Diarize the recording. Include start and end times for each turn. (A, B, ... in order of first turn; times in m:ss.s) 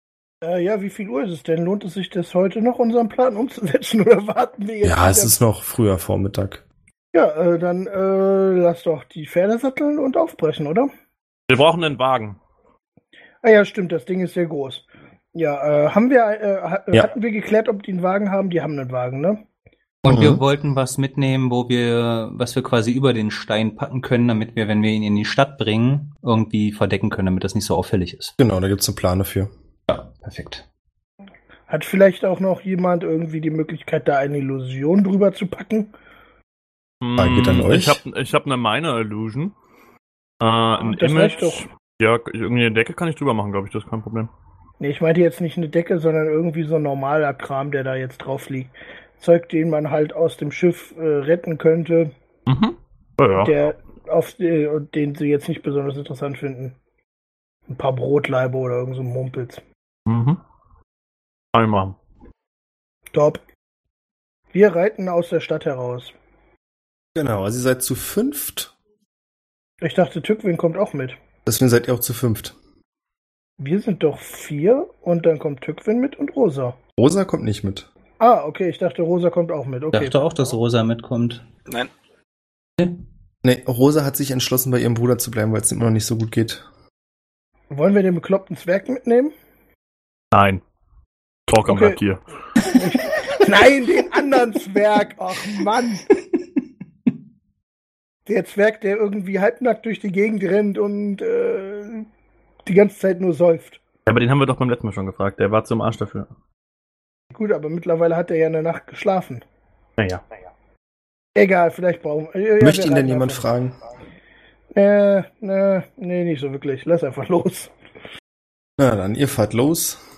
0:00.4-0:05.3 A
0:04.8-0:06.6 B
0:07.1-0:10.9 A
0:11.5-0:12.4 C
0:13.4-0:19.4 A
0:20.0-0:28.3 D
0:20.1-0:20.4 B
0:28.4-0:29.5 B
0:29.9-0:30.6 D
0:31.7-0:35.9 A
0:37.0-0:39.5 C
0:37.2-0:38.0 B
0:40.4-0:44.3 C
0:40.8-0:41.7 A
0:44.8-0:52.1 A
0:52.5-0:53.5 C
0:53.4-0:56.8 A
0:57.7-0:59.6 A
1:00.1-1:00.4 C
1:01.5-1:02.0 C
1:03.1-1:03.4 A
1:04.5-1:06.1 A
1:07.2-1:08.7 B
1:09.8-1:11.2 A
1:11.4-1:12.6 B
1:13.6-1:16.8 A
1:17.0-1:17.9 B
1:18.2-1:20.2 A
1:19.9-1:21.4 D
1:23.4-1:26.6 B
1:27.7-1:29.3 A
1:30.3-1:30.6 C
1:31.5-1:32.2 C
1:31.7-1:32.0 A
1:32.7-1:36.1 A
1:38.3-1:42.1 A
1:42.6-1:43.8 A
1:44.1-1:46.3 C
1:47.3-1:49.4 A
1:50.0-1:50.2 C
1:51.4-1:53.5 A
1:52.6-1:53.8 B
1:54.7-1:57.7 A
1:58.8-2:00.0 B